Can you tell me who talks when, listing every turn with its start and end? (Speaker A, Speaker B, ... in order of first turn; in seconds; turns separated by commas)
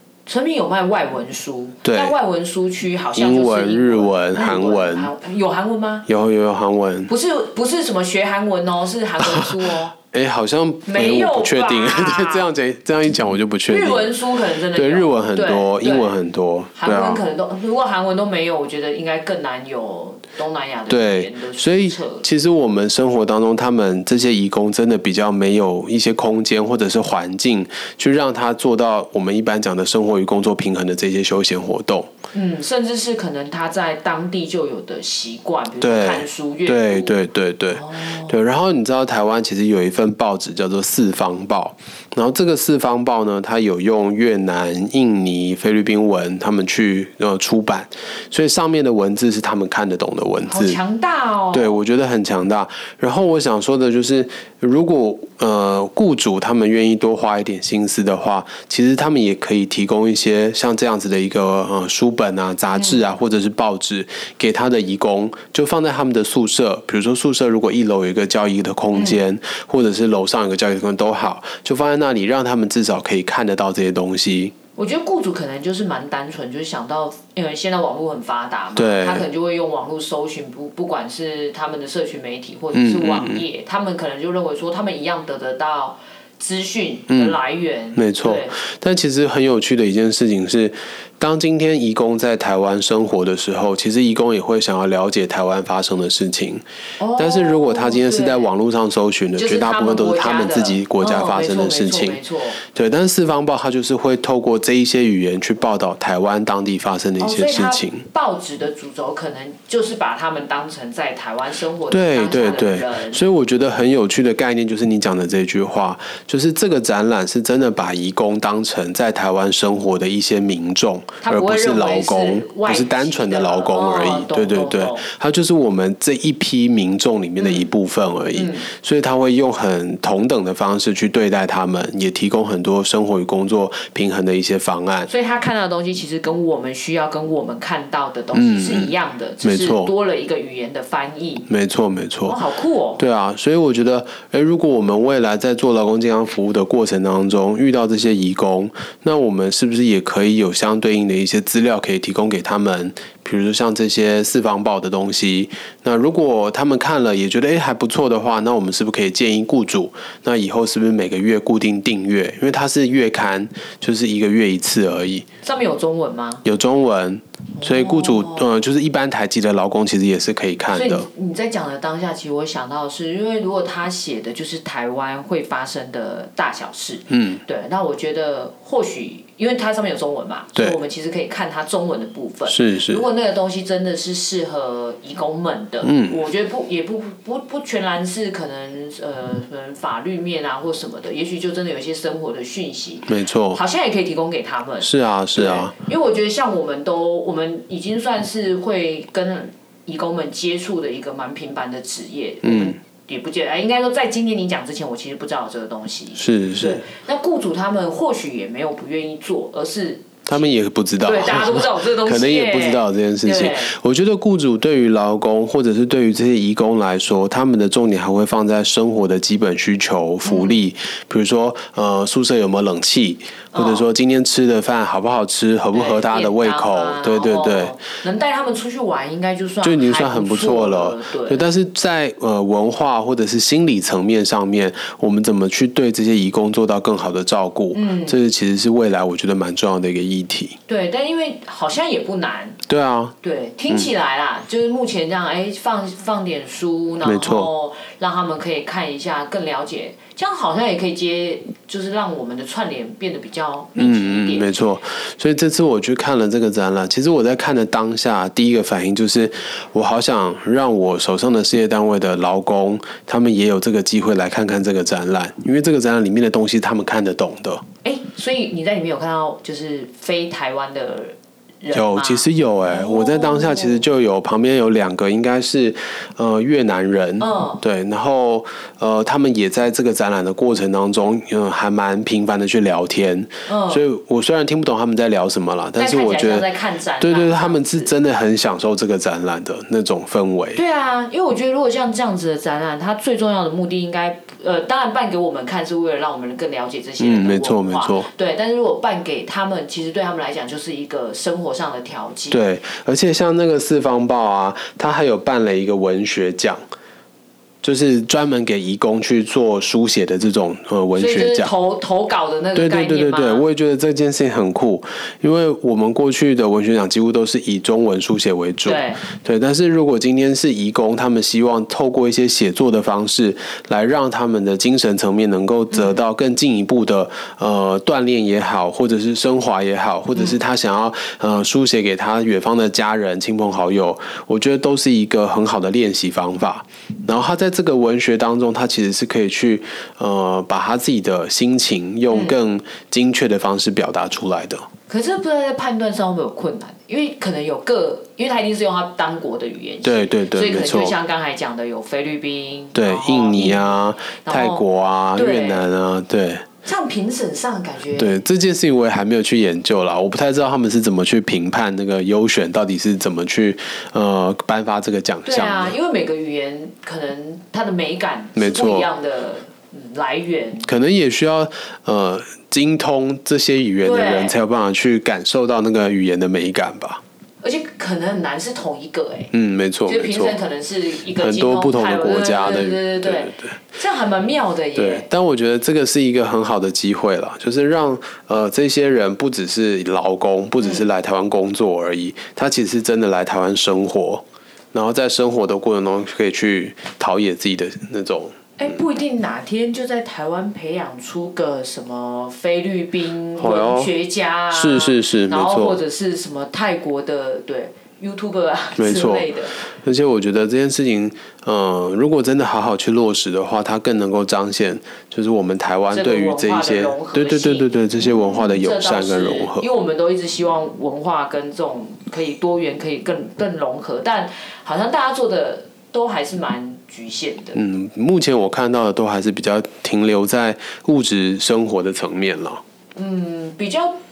Speaker A: 0.3-6.1, Speaker B: 1.8-2.1, Speaker B: 3.1-5.1, Speaker B: 6.1-7.1, Speaker A: 7.1-9.9, Speaker B: 9.3-14.2, Speaker A: 10.9-12.5, Speaker A: 13.7-16.2, Speaker B: 14.7-17.2, Speaker A: 16.8-22.3, Speaker B: 20.9-32.1, Speaker A: 32.3-37.2, Speaker B: 35.8-50.8, Speaker A: 37.7-38.4, Speaker A: 50.5-51.8, Speaker B: 51.5-74.5, Speaker A: 62.8-63.0, Speaker A: 68.9-69.2, Speaker A: 74.8-88.6, Speaker B: 78.8-79.3, Speaker B: 82.7-83.5, Speaker B: 87.1-87.4, Speaker B: 88.0-96.6, Speaker A: 97.0-98.5, Speaker B: 97.2-108.0, Speaker A: 99.3-102.6, Speaker A: 107.2-113.2, Speaker B: 111.9-135.1, Speaker A: 121.2-125.1, Speaker A: 127.4-127.7, Speaker A: 128.3-128.7, Speaker A: 135.1-141.5, Speaker B: 138.3-139.9, Speaker B: 141.5-142.4, Speaker A: 142.3-143.0, Speaker B: 143.0-165.2, Speaker A: 165.4-166.4, Speaker B: 166.4-171.1, Speaker A: 167.6-168.5, Speaker A: 170.7-213.7, Speaker B: 177.1-177.4, Speaker B: 182.5-183.1, Speaker B: 185.8-186.2, Speaker B: 193.1-193.6, Speaker B: 194.8-195.7, Speaker B: 202.4-202.8, Speaker B: 206.2-206.9, Speaker B: 210.3-227.8, Speaker A: 220.2-220.6, Speaker A: 223.5-223.8, Speaker A: 225.7-231.5, Speaker B: 229.6-240.6, Speaker A: 237.7-238.2, Speaker A: 240.7-242.6, Speaker B: 242.7-243.1, Speaker A: 243.2-254.5, Speaker B: 247.0-247.5, Speaker B: 253.8-267.6, Speaker A: 267.8-273.8, Speaker B: 271.7-286.5, Speaker A: 277.2-277.6, Speaker A: 283.5-283.8, Speaker A: 285.8-287.9, Speaker B: 287.0-290.6, Speaker A: 290.5-302.4, Speaker B: 297.0-298.1, Speaker B: 302.3-306.6, Speaker B: 307.6-311.5, Speaker A: 310.9-313.5, Speaker B: 312.6-344.7, Speaker A: 318.6-319.0, Speaker A: 325.7-326.0, Speaker A: 330.1-330.4, Speaker A: 342.1-342.4, Speaker A: 344.9-355.7, Speaker B: 349.8-350.9, Speaker B: 352.8-356.5, Speaker A: 356.6-358.2, Speaker B: 358.0-365.8, Speaker A: 365.2-370.7, Speaker B: 368.4-368.9, Speaker B: 370.6-377.0, Speaker A: 373.8-374.4, Speaker A: 377.4-379.3, Speaker B: 379.3-380.4, Speaker A: 379.9-385.1, Speaker B: 381.1-383.6, Speaker B: 384.8-398.4, Speaker A: 390.6-390.9, Speaker A: 398.6-409.6, Speaker B: 403.4-403.9, Speaker B: 404.5-405.8, Speaker B: 408.8-409.3, Speaker B: 409.8-419.7, Speaker A: 415.9-427.6, Speaker B: 427.6-432.6, Speaker A: 432.9-433.9